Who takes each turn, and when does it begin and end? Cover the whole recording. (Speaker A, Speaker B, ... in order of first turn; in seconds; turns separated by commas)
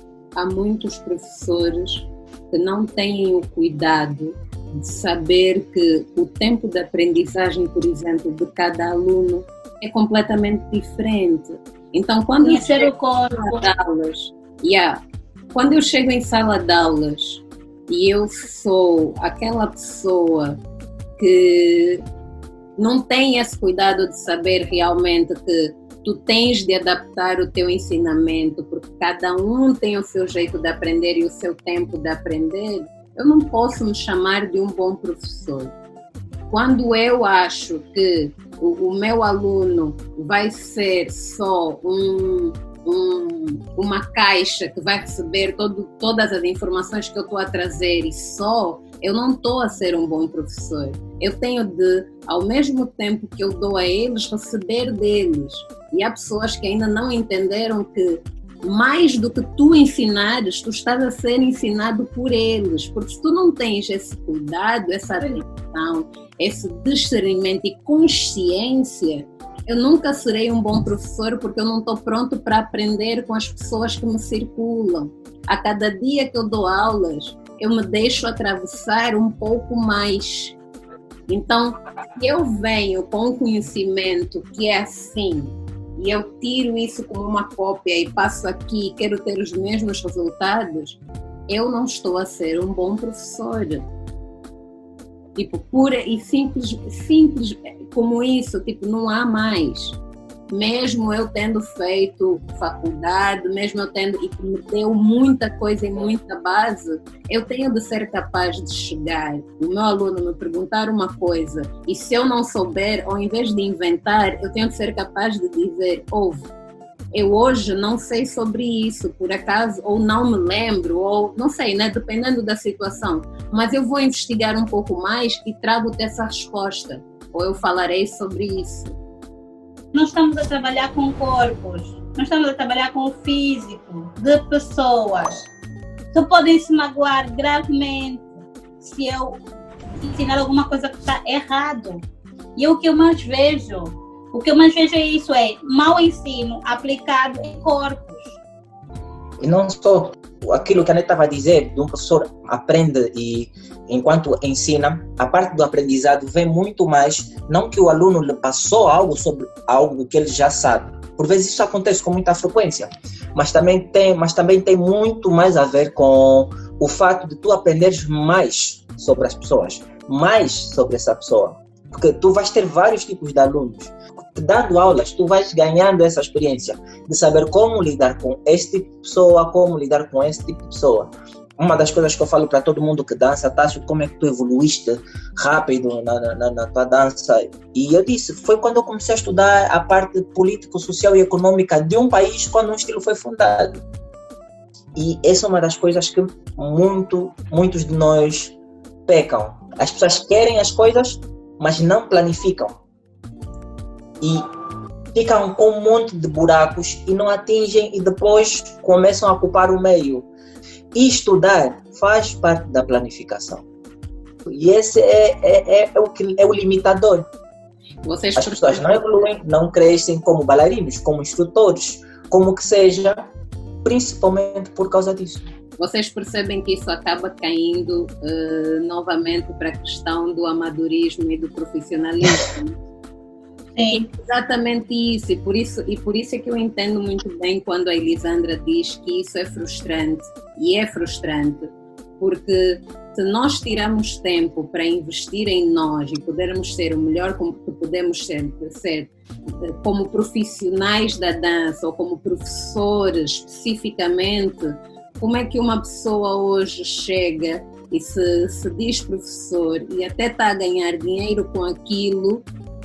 Speaker A: 0.3-15.0, Speaker B: 12.4-13.7, Speaker A: 15.5-20.6, Speaker A: 21.2-22.0, Speaker A: 22.8-35.7, Speaker A: 36.5-80.5, Speaker A: 81.3-93.8, Speaker A: 95.3-100.0, Speaker A: 100.5-116.5, Speaker A: 117.1-128.9, Speaker B: 129.9-135.4, Speaker B: 136.1-139.4, Speaker B: 140.0-142.0, Speaker B: 142.6-148.4, Speaker C: 149.4-193.8, Speaker C: 194.9-198.5, Speaker C: 199.1-202.8, Speaker C: 204.2-204.4, Speaker C: 205.1-210.3, Speaker C: 210.9-213.6, Speaker C: 214.4-217.3, Speaker A: 218.0-219.0, Speaker C: 218.3-223.3, Speaker C: 223.8-225.5, Speaker A: 225.8-232.8, Speaker B: 233.8-234.1, Speaker A: 233.9-262.4